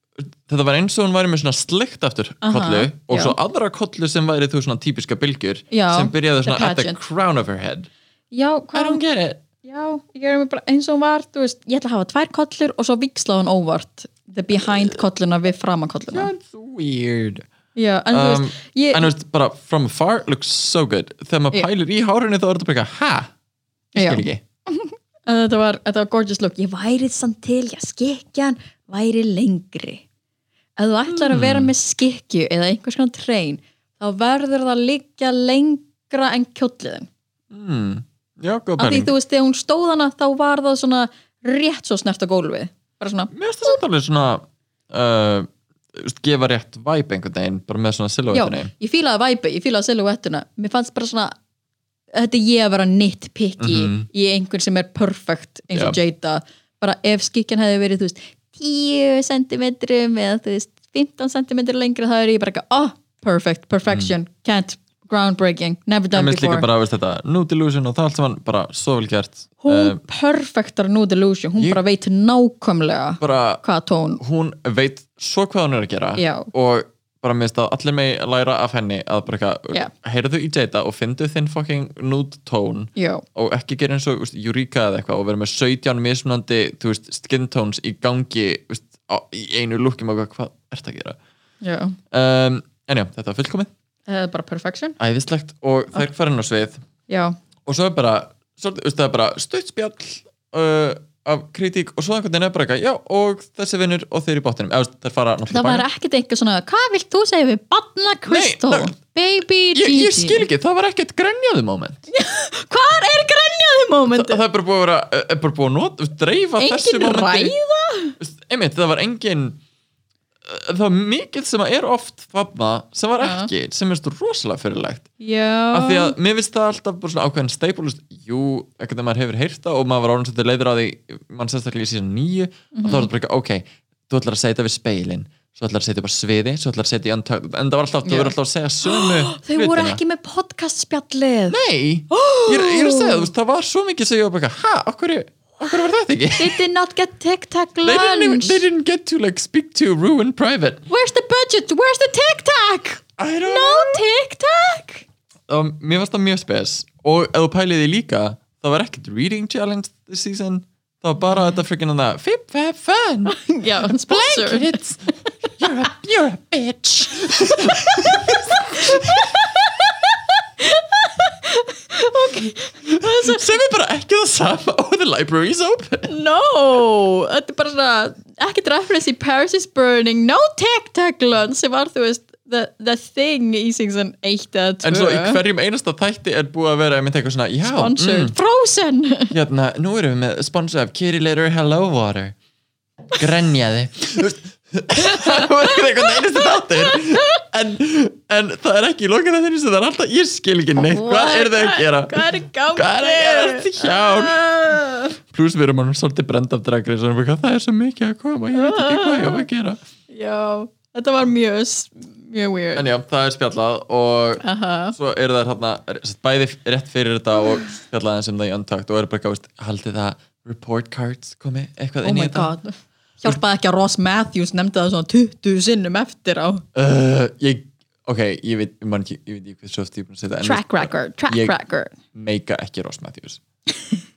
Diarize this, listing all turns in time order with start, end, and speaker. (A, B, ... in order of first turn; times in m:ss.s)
0:00.2-0:07.9 A
0:02.4-0:03.4 B
0:05.7-0:07.0 B
0:08.3-0:09.0 B
0:08.7-0:09.4 A
0:09.6-0:16.3 B
0:14.6-0:15.0 A
0:16.1-0:17.5 A
0:17.8-0:19.1 B
0:18.1-0:23.3 A
0:23.9-0:24.4 A
0:24.0-0:30.0 B
0:30.8-0:37.1 B
0:31.1-0:31.7 A
0:37.5-0:39.1 A
0:38.8-0:43.3 B
0:43.3-0:48.7 A
0:48.3-0:51.4 B
0:52.1-1:06.7 B
0:53.6-0:54.1 A
0:55.7-0:56.0 A
1:03.9-1:04.1 A
1:06.1-1:10.0 A
1:09.6-1:14.2 B
1:13.2-1:13.6 A
1:14.2-1:31.2 A
1:16.2-1:16.5 B
1:23.0-1:23.2 B
1:31.6-1:32.0 B
1:32.1-1:33.7 A
1:34.1-1:35.0 B
1:35.0-1:36.8 A
1:37.1-1:37.4 B
1:37.7-1:45.8 A
1:45.5-1:50.5 B
1:48.3-1:48.9 A
1:49.7-1:52.0 A
1:52.1-1:54.4 B
1:54.1-1:57.5 A
1:56.6-1:58.2 B
1:58.2-1:59.6 A
2:00.4-2:05.1 A
2:03.2-2:03.5 B
2:05.2-2:06.2 B
2:05.7-2:20.0 A
2:12.7-2:13.1 B
2:18.0-2:21.6 B
2:21.5-2:26.6 A
2:22.1-2:23.3 B
2:26.4-2:28.6 B
2:27.8-2:30.8 A
2:30.9-2:35.1 B
2:33.2-2:34.0 A
2:35.5-2:45.0 A
2:43.3-2:44.8 B
2:45.6-2:49.4 A
2:47.4-2:53.6 B
2:52.9-2:56.1 A
2:56.1-3:05.4 B
3:04.8-3:08.3 A
3:07.6-3:09.3 B
3:09.3-3:12.4 A
3:13.2-3:24.4 A
3:15.0-3:17.4 B
3:20.8-3:25.2 B
3:25.3-3:29.8 A
3:28.5-3:29.5 B
3:30.1-3:32.8 B
3:32.8-3:42.5 A
3:34.4-3:35.0 B
3:42.0-3:46.6 B
3:46.8-3:51.5 A
3:50.4-3:52.0 B
3:52.1-3:53.4 A